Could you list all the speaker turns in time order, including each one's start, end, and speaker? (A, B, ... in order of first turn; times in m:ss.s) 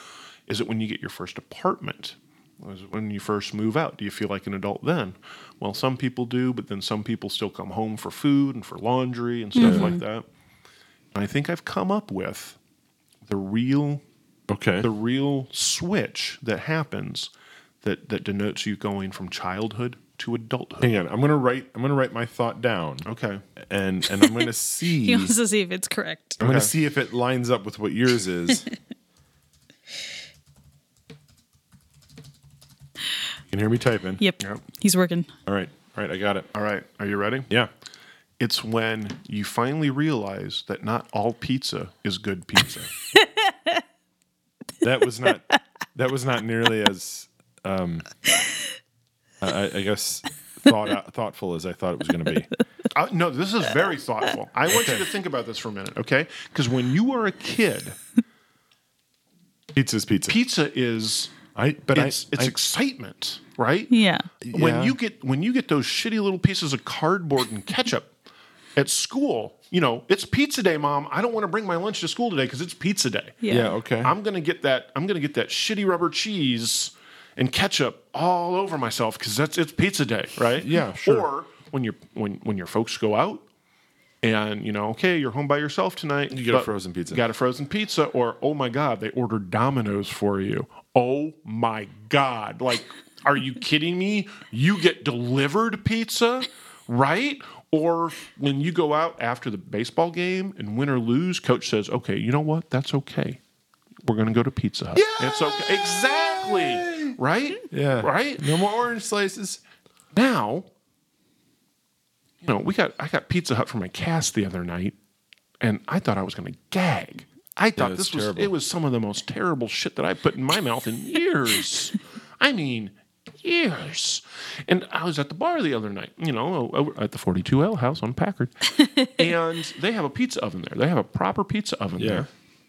0:00.5-0:10.3 A
0:09.6-0:10.0 B
0:09.6-0:10.0 C
0:11.1-0:12.6 A
0:13.2-0:14.0 A
0:14.5-0:14.9 C
0:14.8-0:17.3 A
0:17.8-0:20.9 A
0:20.8-0:23.1 C
0:23.0-0:23.4 A
0:23.6-0:25.3 C
0:24.2-0:24.5 B
0:25.0-0:26.4 B
0:26.4-0:26.7 A
0:26.4-0:28.7 C
0:33.5-0:34.2 C
0:34.2-0:35.3 B
0:35.5-0:36.5 C
0:36.5-0:37.5 A
0:38.4-0:42.9 A
0:43.2-0:43.8 B
0:44.8-0:48.1 C
0:49.4-0:52.5 C
0:52.9-0:58.0 A
0:54.7-0:55.1 C
0:59.7-1:00.4 C
1:00.3-1:01.4 A
1:01.6-1:02.5 C
1:01.9-1:03.9 A
1:03.9-1:04.3 B
1:04.4-1:05.0 C
1:04.5-1:08.1 A
1:08.8-1:13.4 A
1:13.4-1:13.7 B
1:13.5-1:14.1 C
1:14.0-1:23.4 A
1:20.6-1:21.3 C
1:24.2-1:43.4 A
1:26.3-1:27.2 C
1:44.0-1:48.5 A
1:45.0-1:47.2 C
1:47.7-1:49.6 C
1:50.1-1:50.7 A
1:52.4-1:55.0 A
1:55.6-2:12.3 A
1:57.8-1:58.5 C
2:12.0-2:12.3 C